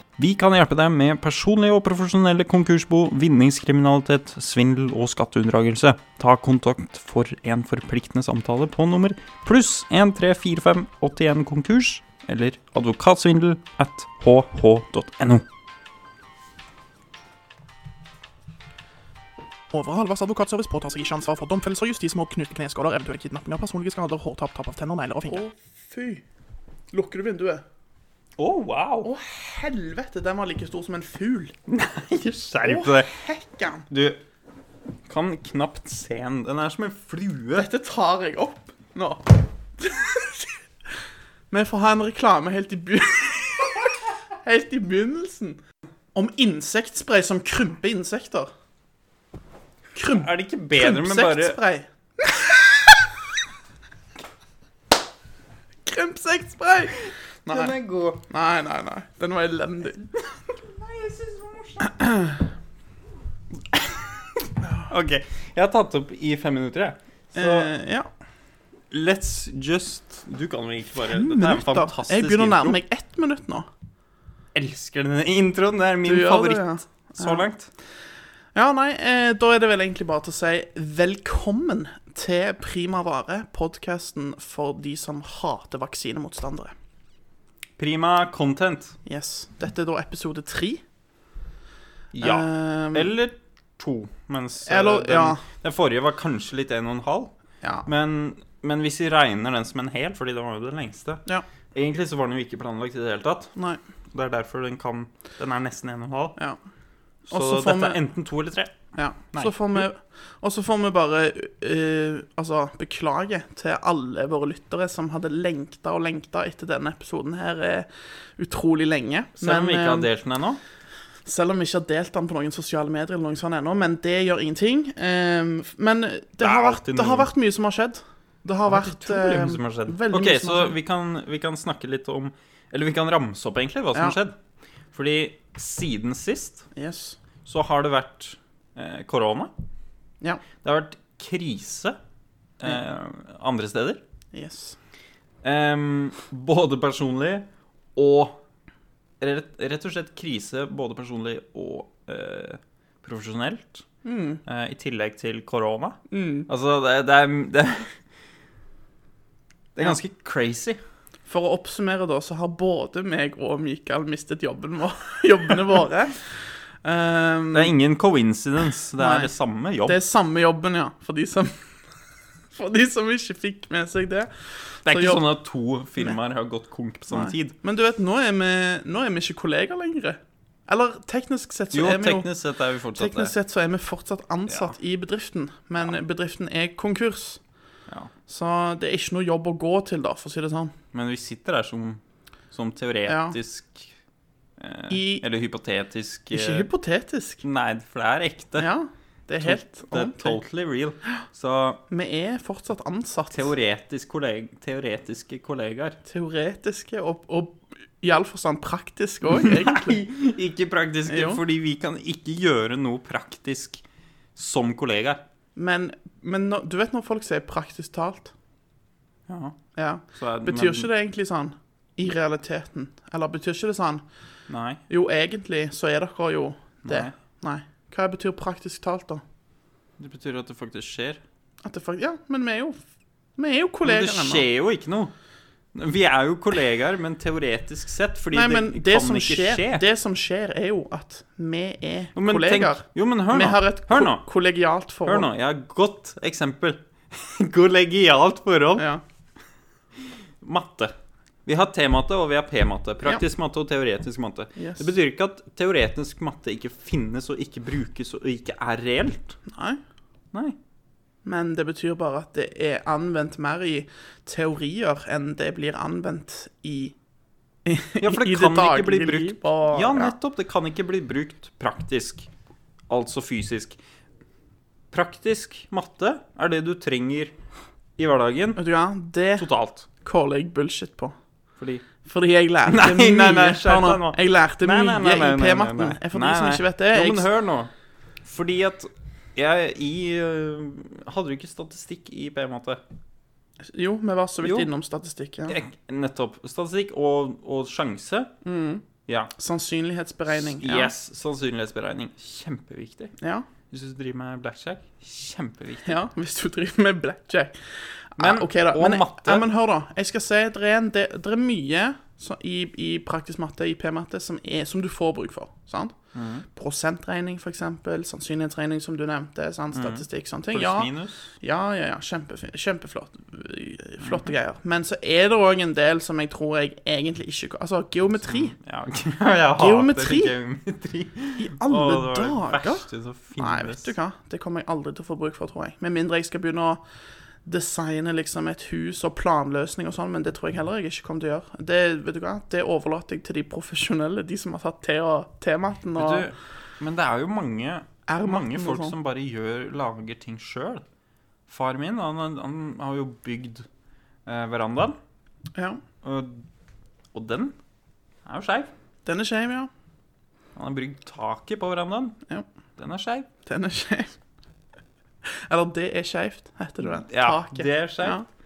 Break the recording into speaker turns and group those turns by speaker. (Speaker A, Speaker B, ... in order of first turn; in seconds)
Speaker A: 0.2-15.4, 28.4-29.1, 31.7-33.2, 33.9-34.2, 35.0-37.7, 50.1-51.6, 57.5-58.2, 60.0-62.0, 63.7-67.7, 68.9-72.8, 74.5-77.7, 87.8-89.0, 92.1-97.3, 97.8-103.5, 104.1-106.3, 107.3-109.8, 119.4-120.6, 126.4-127.3, 128.7-134.4, 134.9-136.7, 137.4-139.5, 140.6-142.0, 142.6-144.0, 145.4-148.4, 149.2-153.8, 154.4-157.9, 159.7-160.8, 167.5-170.0, 174.8-177.5, 181.7-183.3, 184.5-184.8, 190.9-193.9, 194.6-196.7, 197.4-198.7, 199.4-201.8, 203.3-206.0, 209.2-213.8, 214.3-215.2, 219.3-219.6, 220.1-220.9, 224.5-224.8, 226.8-227.1, 230.0-231.2, 233.8-235.1, 235.7-239.8, 242.1-244.2, 245.0-248.9, 250.0-250.9, 251.4-259.4, 268.0-272.3, 272.9-273.8, 274.9-277.3, 278.0-278.6, 279.4-279.9, 281.6-281.8, 282.7-287.7, 288.2-292.8, 294.4-294.7, 295.4-298.3, 299.1-299.3, 300.3-303.1, 303.7-305.9, 308.2-309.5, 316.1-316.4, 319.7-321.3, 328.2-333.9, 345.9-350.8, 351.5-353.6, 354.2-355.0, 356.0-356.4, 357.1-357.6, 358.2-358.7, 360.5-362.2, 362.8-363.3, 366.8-368.2
Speaker B: 19.7-25.4
Speaker C: 25.2-26.2, 26.9-27.6, 29.0-31.5, 32.6-33.8, 37.5-39.2, 39.8-40.5, 41.5-43.9, 44.4-45.6, 46.1-48.5, 49.9-53.1, 55.9-57.8, 58.3-60.0, 61.8-62.4, 67.3-68.1, 71.1-73.7, 76.0-77.5, 78.5-86.7, 89.0-90.8, 92.2-93.1, 94.6-95.4, 97.6-97.9, 107.3-108.0, 109.0-120.1, 121.2-130.8, 136.7-137.2, 144.3-144.8, 154.0-154.4, 156.1-156.5, 161.3-167.7, 169.0-169.3, 169.8-171.8, 172.5-175.2, 177.1-182.3, 182.9-187.4, 188.3-190.7, 193.1-193.4, 194.9-195.2, 196.3-197.4, 198.6-200.4, 201.9-203.5, 206.0-210.1, 211.1-211.4, 215.6-218.3, 219.8-224.0, 224.9-229.2, 231.6-232.8, 233.4-234.4, 238.3-245.3, 248.8-249.0, 254.6-254.9, 259.4-259.8, 261.2-266.9, 267.6-270.1, 278.6-281.1, 282.0-287.3, 293.7-295.6, 298.4-298.8, 299.4-300.9, 303.2-303.5, 305.8-315.9, 316.5-328.6, 329.6-330.3, 331.4-336.8, 337.4-346.3, 348.1-348.9, 355.5-355.8, 359.0-359.7, 363.4-364.2, 365.2-368.2